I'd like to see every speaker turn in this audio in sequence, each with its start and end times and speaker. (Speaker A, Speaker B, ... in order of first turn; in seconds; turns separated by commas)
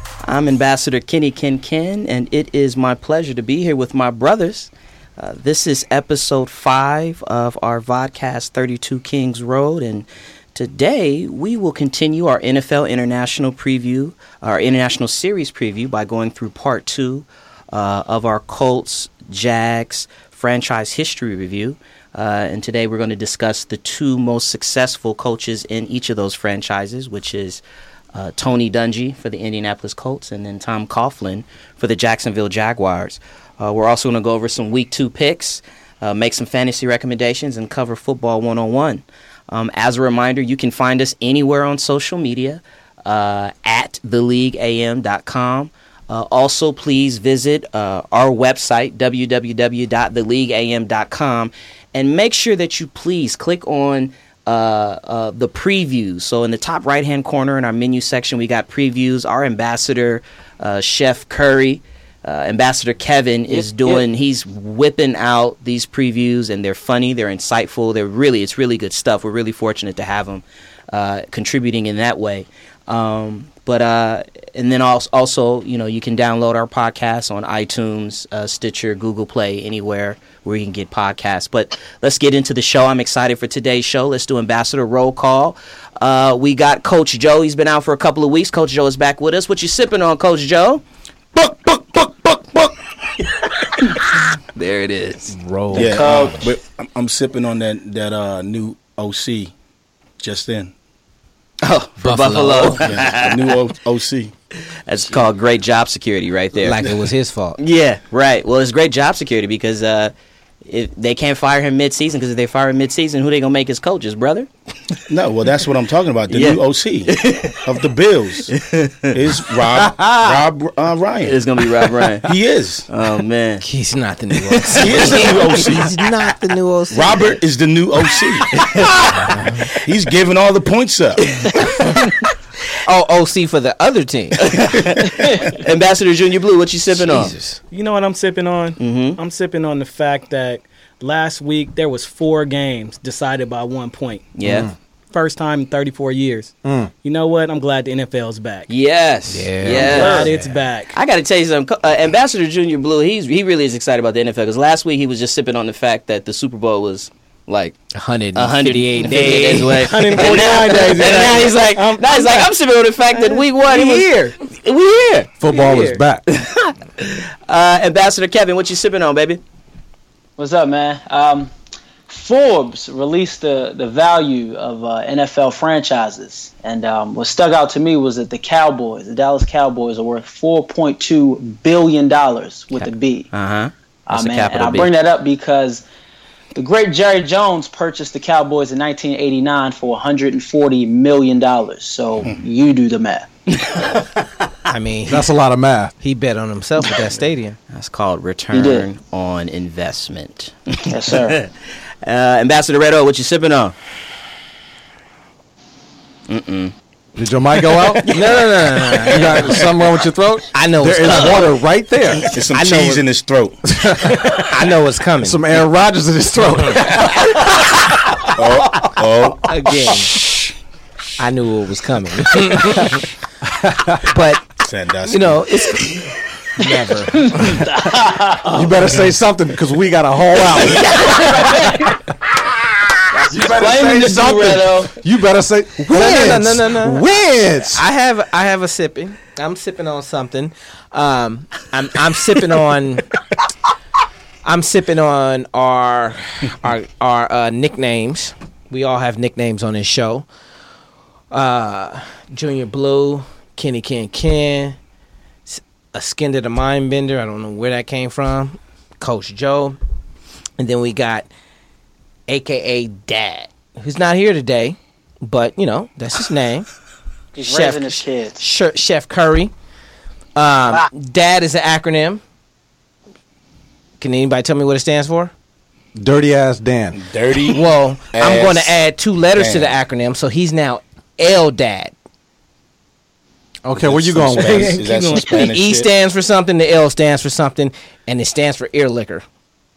Speaker A: 0.2-27.6, Speaker A: 28.1-90.8, Speaker A: 91.3-92.7, Speaker A: 93.7-95.3, Speaker B: 95.3-96.5, Speaker C: 95.7-99.5, Speaker D: 95.8-96.4, Speaker C: 100.2-100.7, Speaker A: 101.6-103.6, Speaker B: 102.0-102.9, Speaker C: 102.8-104.3, Speaker A: 104.9-107.0, Speaker B: 106.6-107.6, Speaker A: 107.6-110.1, Speaker A: 110.7-114.5, Speaker C: 115.1-118.5, Speaker A: 116.3-117.7, Speaker A: 118.6-119.2, Speaker C: 119.1-121.4, Speaker A: 121.2-122.3, Speaker C: 122.2-122.9, Speaker A: 122.9-123.6, Speaker B: 123.6-127.2, Speaker C: 124.7-126.0, Speaker C: 126.9-128.6, Speaker A: 128.6-129.2, Speaker B: 129.1-129.7, Speaker C: 129.8-131.3, Speaker B: 131.7-132.0, Speaker B: 132.8-134.5, Speaker A: 134.4-137.3, Speaker B: 136.9-137.6, Speaker E: 137.7-144.3, Speaker A: 138.8-139.2, Speaker A: 144.4-144.7, Speaker F: 144.5-144.7, Speaker E: 145.1-148.7, Speaker F: 146.6-146.9, Speaker A: 148.7-150.3, Speaker B: 149.3-150.3, Speaker E: 149.6-151.0, Speaker A: 150.9-157.8, Speaker B: 157.9-160.1, Speaker A: 158.3-165.3, Speaker E: 159.2-162.5, Speaker E: 163.2-164.3, Speaker F: 165.4-166.2, Speaker E: 165.5-166.0, Speaker A: 166.3-169.4, Speaker D: 170.4-171.5, Speaker D: 172.1-183.3, Speaker A: 182.7-184.9, Speaker D: 184.1-185.8, Speaker D: 186.6-193.3, Speaker A: 193.6-194.1, Speaker B: 194.7-195.3, Speaker F: 195.1-195.9, Speaker B: 196.0-197.6, Speaker A: 197.7-201.5, Speaker D: 198.5-198.9, Speaker D: 200.9-201.4, Speaker A: 202.0-203.8, Speaker A: 206.3-206.7, Speaker F: 207.2-208.1, Speaker B: 208.1-209.6, Speaker F: 209.0-212.3, Speaker B: 210.5-211.5, Speaker C: 212.3-213.7, Speaker B: 212.5-213.0, Speaker F: 213.7-214.5, Speaker B: 214.3-215.4, Speaker F: 215.2-219.0, Speaker C: 218.3-219.5, Speaker B: 219.4-220.1, Speaker B: 221.2-223.1, Speaker F: 223.6-224.0, Speaker B: 224.0-224.4, Speaker C: 224.6-226.0, Speaker B: 225.1-227.6, Speaker D: 227.2-228.8, Speaker F: 228.4-231.9, Speaker D: 231.3-231.9, Speaker F: 233.1-237.8, Speaker D: 233.3-234.9, Speaker B: 235.9-237.1, Speaker B: 237.7-243.1, Speaker B: 244.4-250.3, Speaker B: 251.3-254.8, Speaker B: 255.5-259.8, Speaker B: 260.6-261.3, Speaker B: 262.3-266.7, Speaker D: 267.4-268.4, Speaker B: 267.4-269.5, Speaker B: 270.4-272.2, Speaker B: 274.0-275.3, Speaker F: 276.0-277.0, Speaker C: 276.9-278.8, Speaker B: 277.5-281.9, Speaker C: 279.3-279.8, Speaker F: 283.6-284.8, Speaker C: 283.8-285.9, Speaker E: 284.4-285.3, Speaker B: 285.2-289.2